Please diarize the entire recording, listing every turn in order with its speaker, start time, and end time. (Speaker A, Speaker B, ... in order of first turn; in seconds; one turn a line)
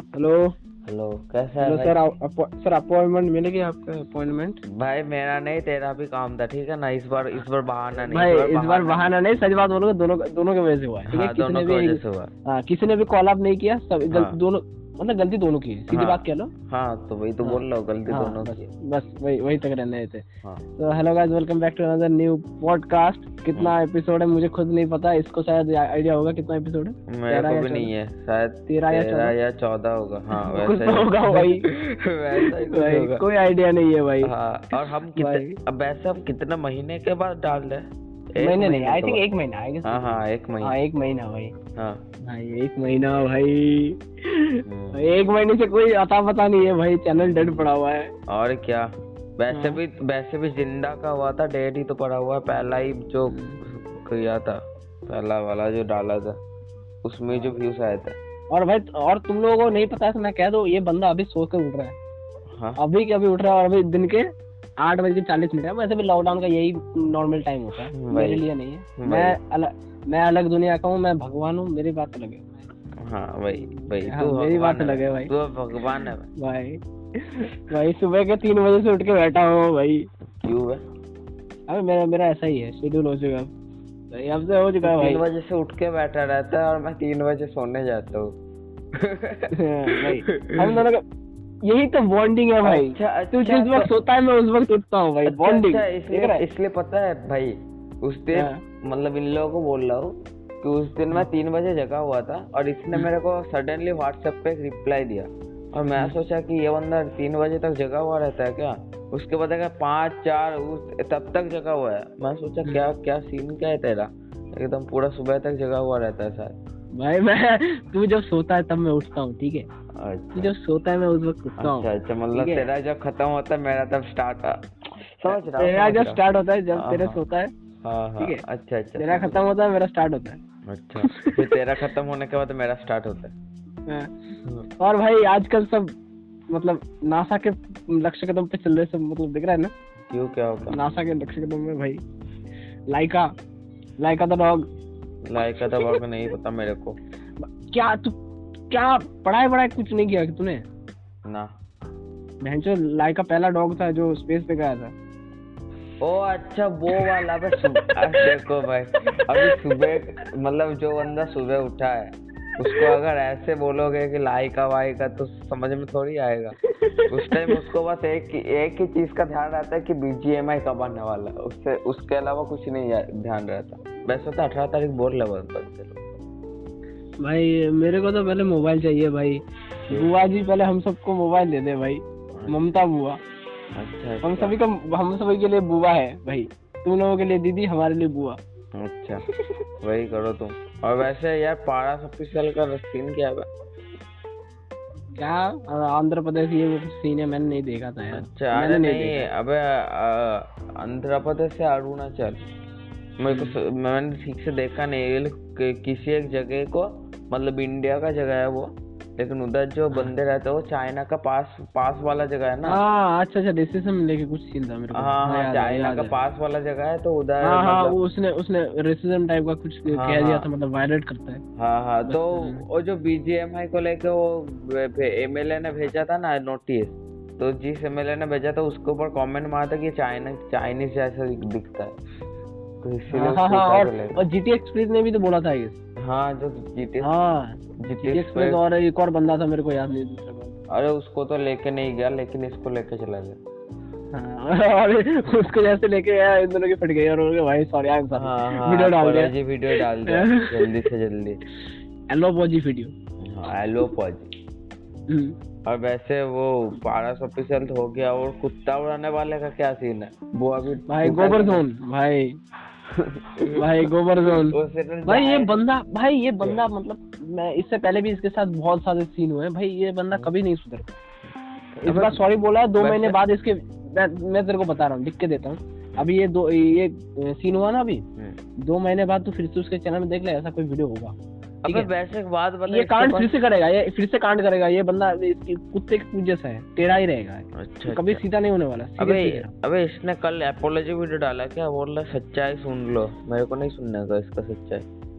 Speaker A: 0.1-0.5
Speaker B: 0.8-1.9
Speaker A: 1.6-4.6
Speaker B: 4.7-9.1
Speaker A: 8.1-16.5
Speaker B: 11.1-12.3
Speaker B: 14.1-14.4
Speaker B: 15.9-18.7
Speaker A: 17.4-20.2
Speaker A: 20.8-27.9
Speaker B: 27.1-33.2
Speaker A: 28.7-29.3
Speaker A: 30.3-31.7
Speaker A: 32.4-34.3
Speaker B: 34.2-39.2
Speaker A: 35.1-35.6
Speaker A: 38.4-41.5
Speaker B: 39.8-40.7
Speaker B: 41.8-42.0
Speaker A: 42.2-48.1
Speaker B: 44.6-45.1
Speaker B: 47.1-47.7
Speaker B: 48.3-56.4
Speaker A: 49.5-49.8
Speaker A: 53.3-53.6
Speaker B: 57.0-58.2
Speaker A: 58.5-62.0
Speaker A: 62.8-64.3
Speaker A: 64.8-72.7
Speaker B: 67.9-68.4
Speaker B: 69.0-69.4
Speaker B: 73.0-76.3
Speaker A: 73.5-75.3
Speaker A: 76.4-80.1
Speaker B: 80.4-80.8
Speaker A: 81.7-83.5
Speaker A: 84.1-85.2
Speaker B: 84.8-88.3
Speaker B: 89.0-90.8
Speaker A: 89.5-91.0
Speaker A: 91.7-96.4
Speaker B: 92.6-93.9
Speaker B: 95.2-116.5
Speaker A: 117.0-119.7
Speaker B: 120.0-120.5
Speaker A: 120.3-122.7
Speaker B: 121.6-126.2
Speaker A: 125.3-127.5
Speaker B: 126.7-127.2
Speaker B: 127.8-129.4
Speaker A: 129.0-130.4
Speaker B: 130.7-133.3
Speaker A: 131.0-131.3
Speaker A: 133.9-134.1
Speaker A: 134.8-135.9
Speaker A: 136.5-139.7
Speaker B: 140.1-140.8
Speaker A: 140.7-142.0
Speaker A: 142.9-143.3
Speaker A: 144.0-144.6
Speaker B: 145.2-147.0
Speaker A: 147.6-148.2
Speaker A: 148.7-150.6
Speaker A: 152.4-154.9
Speaker B: 156.0-166.6
Speaker A: 156.9-158.3
Speaker A: 159.4-159.9
Speaker A: 166.7-167.6
Speaker B: 167.1-176.0
Speaker A: 177.2-183.2
Speaker B: 183.8-184.6
Speaker A: 184.2-188.4
Speaker B: 188.8-189.2
Speaker B: 189.8-193.5
Speaker A: 195.2-199.3
Speaker B: 198.1-202.4
Speaker B: 203.2-212.8
Speaker A: 203.3-203.6
Speaker A: 212.6-216.2
Speaker B: 214.9-218.0
Speaker A: 217.4-221.4
Speaker B: 219.9-220.5
Speaker B: 221.6-232.0
Speaker A: 222.1-222.6
Speaker B: 232.8-234.2
Speaker A: 233.1-235.8
Speaker B: 236.0-237.1
Speaker A: 237.0-240.6
Speaker B: 237.8-238.6
Speaker B: 240.7-243.4
Speaker A: 244.1-250.7
Speaker B: 248.1-251.4
Speaker A: 252.1-252.9
Speaker B: 253.2-254.3
Speaker A: 255.1-255.3
Speaker B: 255.7-261.6
Speaker A: 260.9-262.4
Speaker B: 262.9-265.6
Speaker A: 263.5-271.0
Speaker A: 271.8-278.0
Speaker B: 271.8-272.2
Speaker B: 272.8-273.2
Speaker A: 278.6-281.1
Speaker B: 281.6-283.3
Speaker A: 282.7-289.5
Speaker B: 287.6-288.2
Speaker B: 289.0-294.8